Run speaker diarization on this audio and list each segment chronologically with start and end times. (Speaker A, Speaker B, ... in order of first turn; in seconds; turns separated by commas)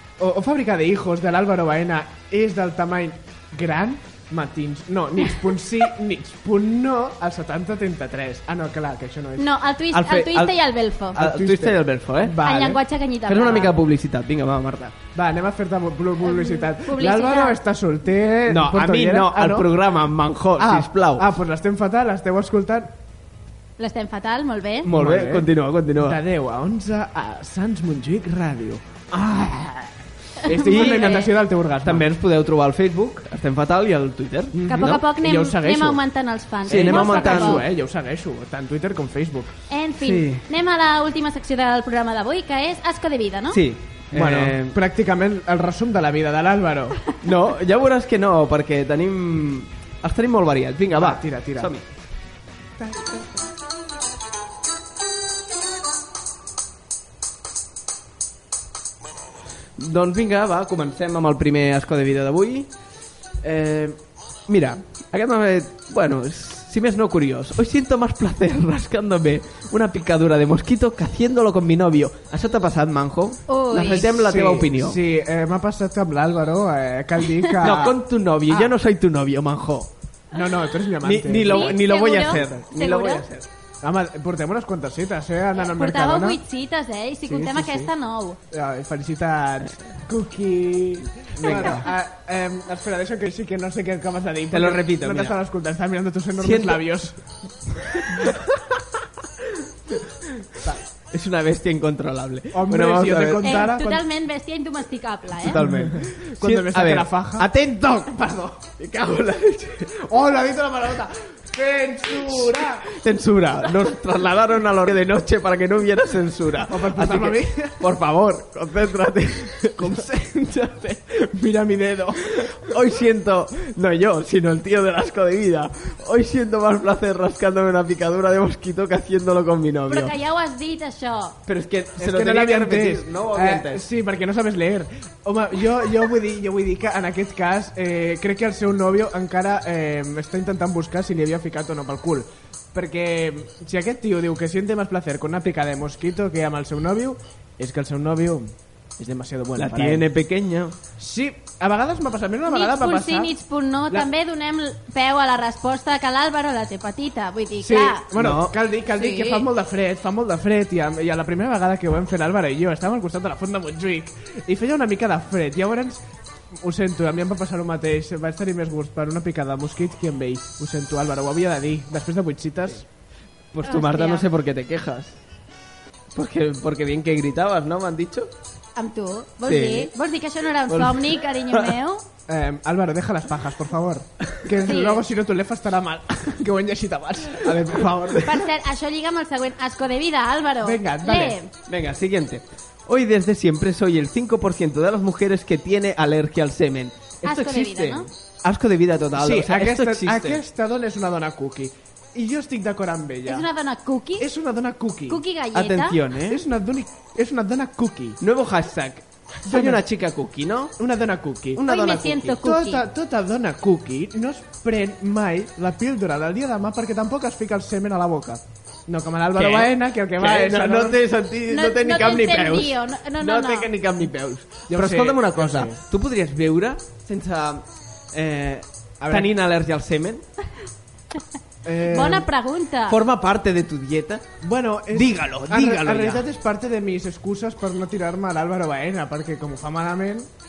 Speaker A: 0.2-9.5, Speaker B: 9.4-11.2, Speaker C: 9.9-10.6, Speaker C: 11.1-12.5, Speaker A: 11.2-12.8, Speaker B: 12.4-13.8, Speaker C: 13.3-15.0, Speaker A: 15.2-19.7, Speaker B: 16.2-17.6, Speaker C: 18.5-21.3, Speaker A: 20.6-22.9, Speaker B: 23.8-24.9, Speaker C: 24.8-26.2, Speaker A: 24.9-29.9, Speaker A: 30.4-32.1, Speaker B: 30.5-31.3, Speaker C: 30.6-35.0, Speaker A: 34.5-36.0, Speaker B: 34.7-37.6, Speaker A: 36.6-39.5, Speaker C: 36.7-37.7, Speaker B: 39.7-43.6, Speaker C: 40.0-40.4, Speaker C: 43.5-44.8, Speaker A: 44.1-47.1, Speaker C: 47.2-51.9, Speaker A: 51.0-51.7, Speaker A: 52.8-53.2, Speaker C: 59.8-62.7, Speaker C: 63.4-75.0, Speaker B: 73.5-74.1, Speaker A: 73.8-78.7, Speaker C: 77.6-79.9, Speaker A: 80.3-81.8, Speaker C: 81.0-83.5, Speaker B: 81.4-83.3, Speaker A: 83.8-86.4, Speaker B: 85.5-88.4, Speaker A: 87.3-87.9, Speaker A: 88.5-97.2, Speaker C: 91.4-91.9, Speaker C: 94.5-95.4, Speaker C: 96.4-96.9, Speaker C: 101.1-103.7, Speaker A: 102.5-104.0, Speaker B: 103.4-105.6, Speaker C: 105.4-109.9, Speaker A: 105.6-107.5, Speaker A: 110.0-112.9, Speaker C: 112.2-121.0, Speaker A: 116.7-117.8, Speaker A: 119.8-120.2, Speaker A: 121.1-122.5, Speaker C: 122.6-130.2, Speaker B: 129.9-131.4, Speaker C: 131.5-133.8, Speaker A: 132.0-150.1, Speaker C: 149.6-150.8, Speaker A: 151.0-153.3, Speaker B: 152.5-158.0, Speaker A: 157.6-166.0, Speaker C: 158.2-158.6, Speaker B: 158.9-159.4, Speaker A: 166.6-172.9, Speaker C: 173.5-175.2, Speaker B: 173.7-174.2, Speaker C: 176.1-178.3, Speaker B: 178.8-182.0, Speaker C: 179.5-179.9, Speaker C: 180.7-181.8, Speaker A: 182.3-188.4, Speaker B: 184.7-185.0, Speaker B: 188.2-191.5, Speaker A: 190.6-191.4, Speaker C: 191.7-200.4, Speaker B: 197.2-198.1, Speaker A: 199.2-203.5, Speaker B: 203.3-204.2, Speaker A: 204.2-205.2, Speaker B: 205.1-206.0, Speaker C: 205.5-206.4, Speaker A: 206.3-208.2, Speaker C: 208.2-210.7, Speaker A: 209.5-209.8, Speaker A: 210.8-221.0, Speaker C: 211.6-212.4, Speaker B: 211.6-212.8, Speaker C: 219.3-230.2, Speaker B: 221.5-223.7, Speaker A: 224.7-225.8, Speaker A: 229.0-229.3, Speaker A: 231.7-232.3, Speaker B: 231.9-233.0, Speaker C: 232.9-234.3, Speaker A: 234.4-240.3, Speaker C: 234.9-236.3